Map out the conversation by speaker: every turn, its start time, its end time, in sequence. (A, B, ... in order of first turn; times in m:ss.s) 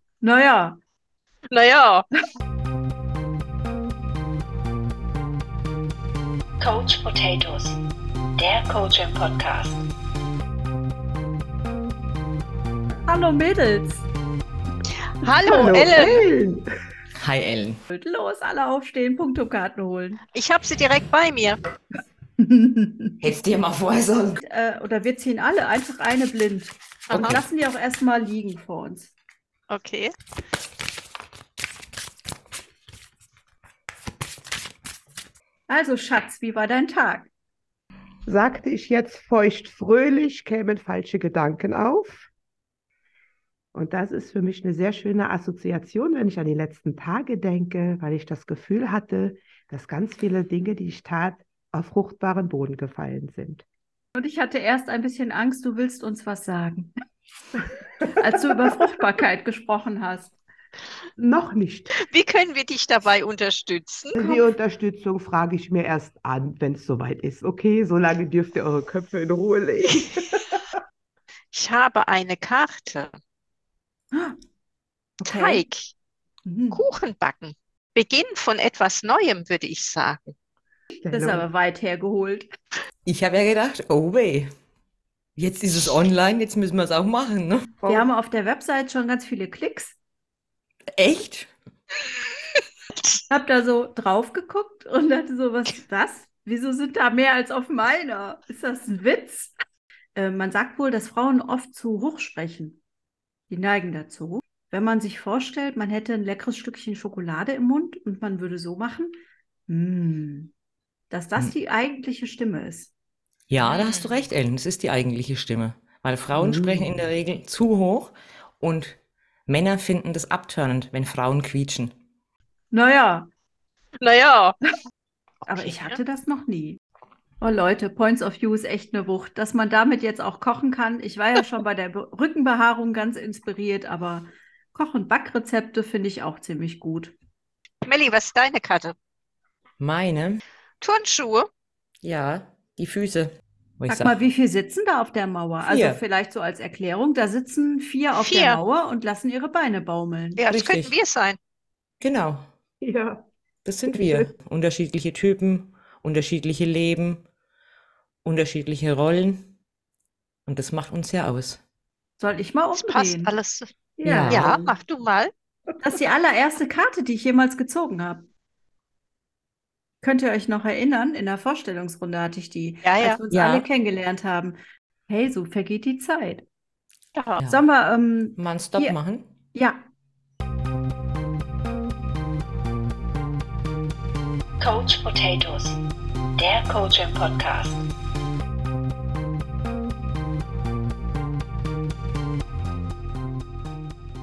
0:00.2-0:00.8 A
0:01.5-0:02.0 B
0:06.6-0:07.8 C
0:08.4-0:09.8 C
0:13.0-0:14.0 A
0:15.2-0:16.3 B
0:15.5-0:16.6 D
0:17.2-0:17.8 E
0:17.9-0:20.2 A
0:20.3-0:21.6 B
0:22.4-0:23.2 A
0:23.2-0:24.4 E
0:24.4-0:29.1 A
0:27.1-0:27.4 B
0:27.1-0:27.4 E
0:29.7-0:30.1 B
0:35.7-0:37.3 A
0:38.2-0:42.3 D
0:43.7-0:53.6 D
0:54.2-0:56.9 A
0:58.2-1:00.3 A
1:01.2-1:02.0 D
1:02.0-1:04.2 B
1:04.1-1:10.6 D
1:04.2-1:04.4 A
1:11.5-1:13.1 B
1:15.2-1:15.9 B
1:15.2-1:15.6 A
1:16.4-1:16.8 A
1:16.7-1:20.3 B
1:21.0-1:21.4 D
1:21.1-1:22.5 A
1:23.0-1:24.5 E
1:25.4-1:27.8 E
1:27.8-1:28.1 D
1:27.8-1:30.0 A
1:31.0-1:31.5 E
1:33.3-1:39.5 A
1:40.1-1:42.8 A
1:43.5-1:49.1 A
1:49.7-1:50.5 A
1:51.1-1:52.9 A
1:53.5-2:01.9 E
1:53.6-1:54.1 B
1:56.3-1:56.9 D
2:02.7-2:03.3 A
2:04.0-2:04.6 B
2:05.5-2:06.8 A
2:05.5-2:06.0 B
2:07.4-2:17.1 A
2:17.8-2:19.0 B
2:19.8-2:20.4 E
2:20.8-2:21.5 B
2:22.0-2:24.2 E
2:23.9-2:30.4 A
2:25.6-2:26.0 E
2:28.2-2:28.6 B
2:30.4-2:31.4 B
2:30.5-2:31.0 E
2:32.0-2:32.4 E
2:32.8-2:33.2 D
2:33.6-2:37.2 E
2:33.9-2:34.3 D
2:38.2-2:39.5 E
2:40.4-2:41.6 E
2:42.2-2:43.3 A
2:42.7-2:43.7 B
2:44.0-2:44.5 A
2:44.0-2:44.5 E
2:44.3-2:45.3 B
2:45.8-2:48.3 A
2:50.0-2:54.6 A
2:52.8-2:53.2 B
2:53.3-2:53.6 E
2:55.1-2:56.4 A
2:57.1-2:57.4 B
2:57.5-2:59.0 A
2:58.4-2:59.3 E
2:59.5-2:59.9 A
3:04.6-3:05.8 C
3:06.4-3:07.8 C